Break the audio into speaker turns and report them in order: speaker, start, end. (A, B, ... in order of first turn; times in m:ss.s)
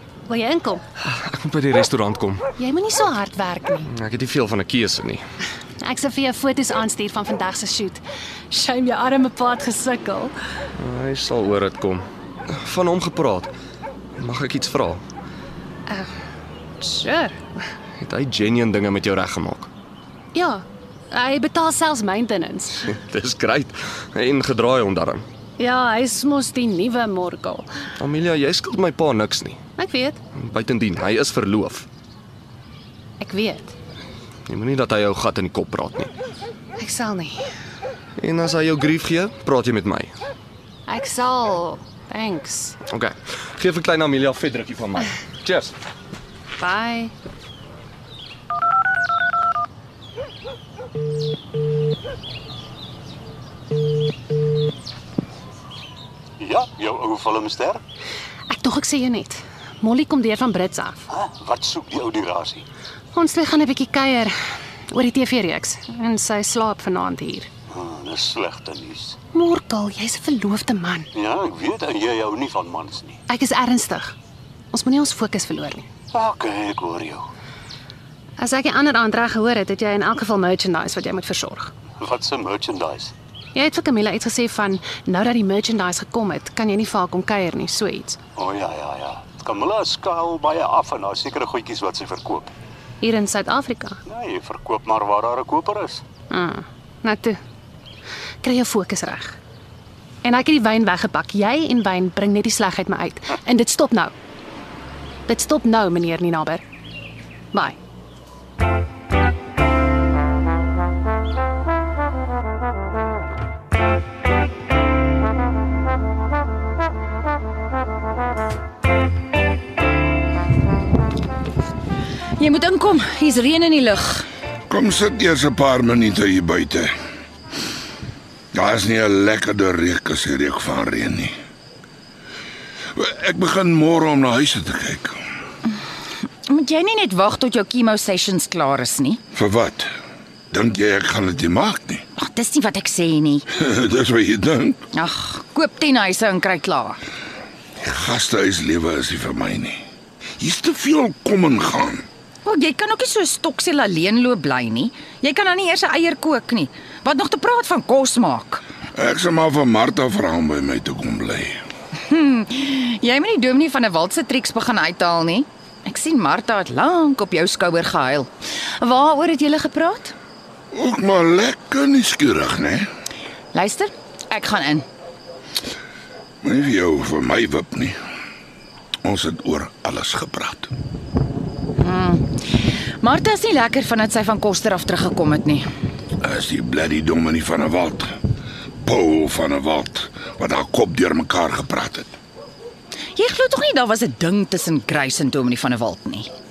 0:00.3-0:00.8 A
0:01.0-0:02.4 B
0:02.6-0:03.9 A
0:03.9-0:05.2 B
0:05.8-0:10.3 A
0:10.8-0:13.5 B
0:14.2-0:15.0 B
0:16.8-0:17.4 A
0:18.0-0:19.7 B
0:20.4-0:22.9 A
0:22.9-0:25.2 B
0:25.6-0:27.7 A
0:28.0-0:29.6 B
0:29.8-0:30.2 A
0:30.4-0:31.9 B
0:33.2-0:33.7 A
0:34.5-0:36.1 B
0:36.8-0:37.4 A
0:38.2-0:40.1 B
0:40.9-0:42.8 A
0:42.9-0:45.7 B
0:46.6-0:47.1 A
0:56.4-0:57.8 C
0:58.5-1:01.0 A
1:01.2-1:02.6 C
1:03.1-1:04.3 A
1:04.9-1:07.5 A
1:07.8-1:09.2 C
1:09.3-1:11.1 A
1:11.2-1:13.2 C
1:13.3-1:14.1 A
1:14.7-1:15.9 A
1:16.1-1:17.2 C
1:18.4-1:21.7 A
1:22.0-1:23.1 C
1:23.6-1:28.2 A
1:28.4-1:32.5 C
1:33.0-1:34.0 A
1:34.1-1:36.0 C
1:36.3-1:37.4 A
1:38.4-1:39.4 A
1:40.2-1:44.1 A
1:45.3-1:46.6 A
2:02.4-2:04.3 D
2:04.7-2:06.9 E
2:08.5-2:11.3 E
2:13.0-2:15.2 E
2:16.5-2:19.2 D
2:19.3-2:19.9 E
2:20.5-2:22.0 E
2:22.2-2:23.5 D
2:23.5-2:24.8 E
2:24.9-2:27.0 D
2:27.8-2:29.8 E
2:30.4-2:32.0 E
2:32.4-2:38.6 D
2:38.9-2:41.6 E
2:42.1-2:50.2 D
2:50.7-2:52.9 E
2:53.5-2:54.9 D
2:56.4-2:58.0 E
2:59.0-3:00.7 E
3:01.8-3:02.4 D
3:03.0-3:05.6 D
3:06.2-3:08.1 E
3:08.8-3:12.1 E
3:13.2-3:16.3 D